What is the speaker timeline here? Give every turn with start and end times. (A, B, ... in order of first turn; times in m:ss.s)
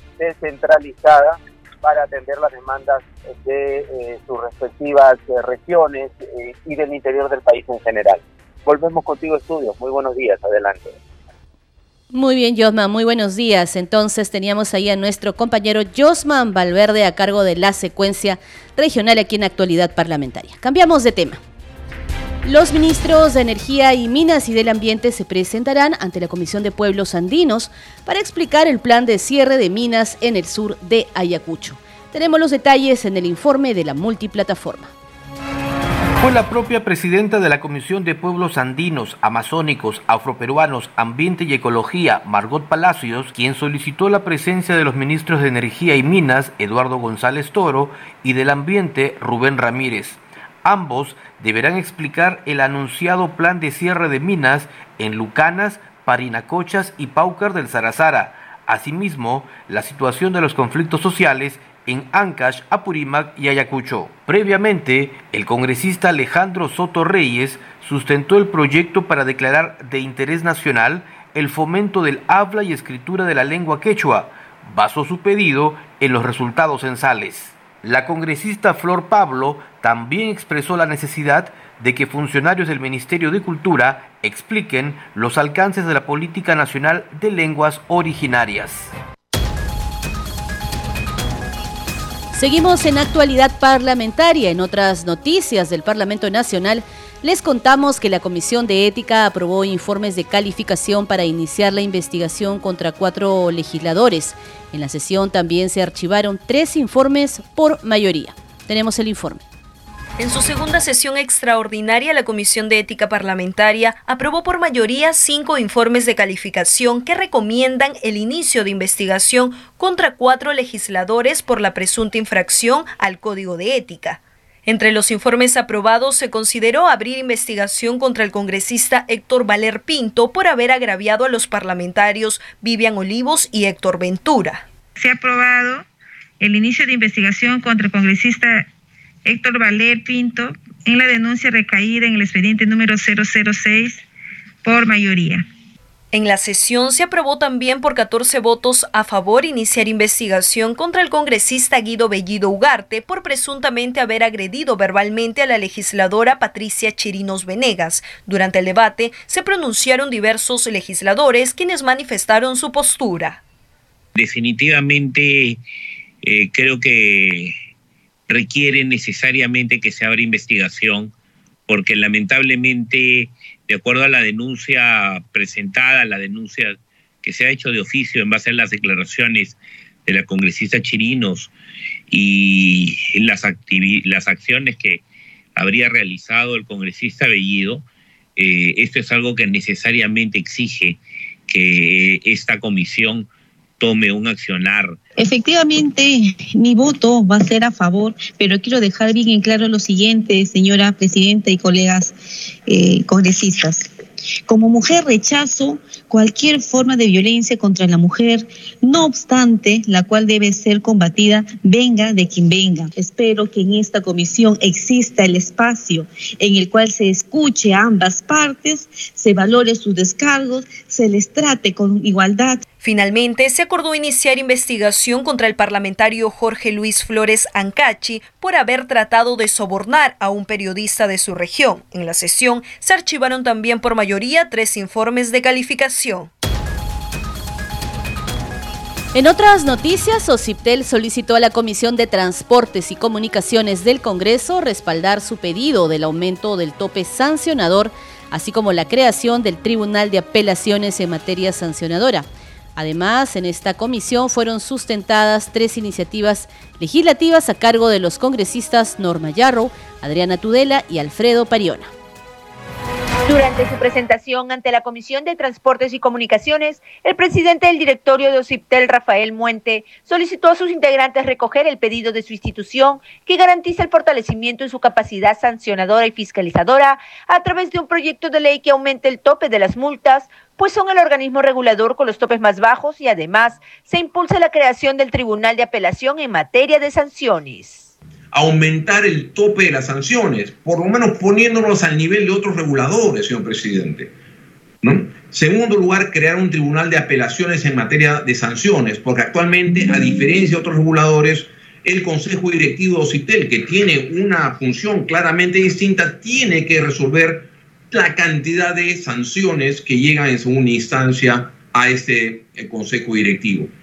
0:00.2-0:11.0 A
0:12.1-0:21.4 B
0:22.4-0:34.9 B
0:36.2-1:28.9 C
1:32.3-1:49.4 B
1:50.2-2:14.7 D
2:15.0-2:15.9 E
2:16.4-2:18.7 E
2:19.2-2:24.0 E
2:24.6-2:25.4 E
2:26.1-2:43.4 D
2:44.2-2:45.6 F
2:46.2-2:47.5 F
2:48.3-2:51.1 F
2:51.7-3:01.5 F
3:02.1-3:05.0 F
3:05.6-3:07.8 F
3:08.4-3:13.3 F
3:13.8-3:15.0 F
3:15.2-3:22.2 G
3:22.7-3:23.9 G
3:24.5-3:42.6 G
3:42.8-3:56.3 D
3:59.1-4:21.9 B
4:23.3-4:47.9 H
4:48.3-4:54.1 I
4:54.8-5:13.7 I